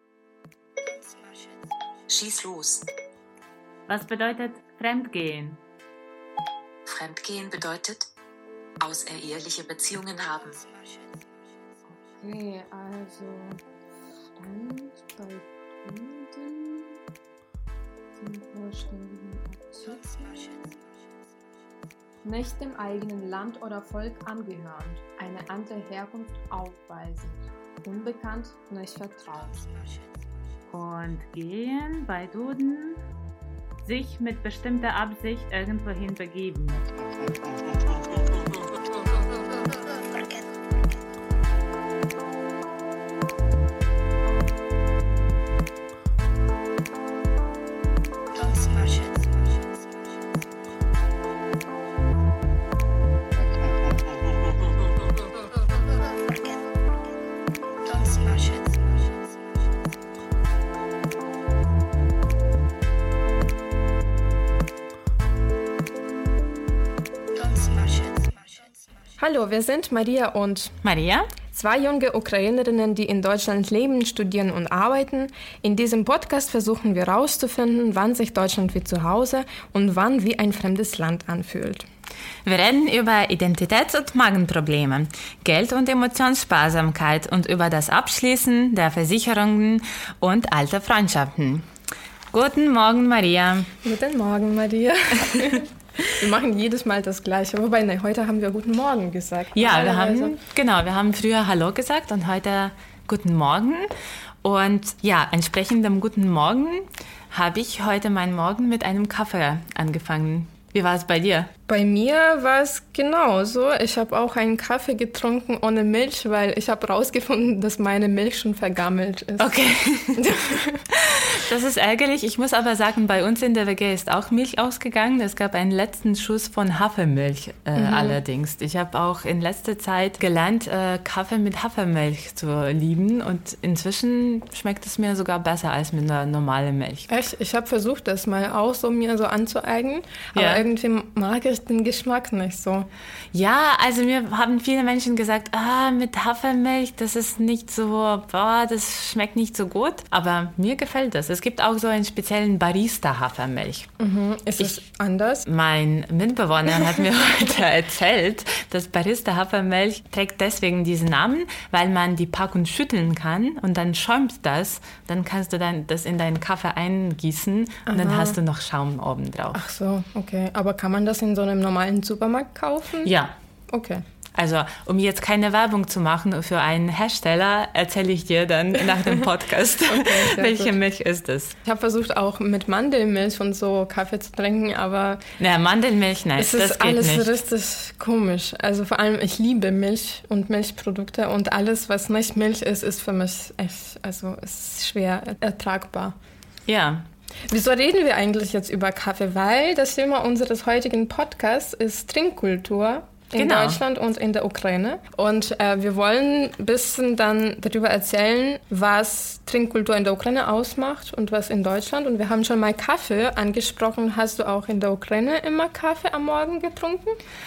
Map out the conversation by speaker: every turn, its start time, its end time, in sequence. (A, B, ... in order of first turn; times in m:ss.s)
0:02.1-0:02.8 A
0:03.9-0:05.6 B
0:06.9-0:08.1 A
0:08.8-0:10.6 A
0:12.2-0:13.6 C
0:14.4-0:17.0 C
0:18.2-0:20.8 C
0:22.2-0:29.8 C
0:30.7-0:33.0 B
0:33.8-0:36.8 B
1:09.2-1:10.8 C
1:10.8-1:11.3 B
1:11.5-1:21.9 C
1:22.4-1:31.7 B
1:32.3-1:33.7 B
1:33.8-1:40.4 C
1:39.5-1:43.9 B
1:44.4-1:51.5 B
1:51.7-1:59.5 C
1:59.4-2:00.3 B
2:00.2-2:00.8 C
2:00.9-2:17.1 B
2:07.8-2:08.2 C
2:17.1-2:22.9 C
2:20.3-2:20.6 B
2:23.3-2:33.9 B
2:34.0-2:35.5 C
2:35.5-2:49.6 B
2:47.9-2:48.4 C
2:49.5-2:53.1 C
2:53.0-2:53.4 B
2:53.7-2:54.0 C
2:54.4-3:01.6 B
2:59.9-3:00.7 C
3:01.6-3:05.2 C
3:05.4-3:07.3 B
3:06.4-3:16.2 C
3:16.7-3:17.1 B
3:17.5-3:37.2 C
3:23.4-3:23.8 B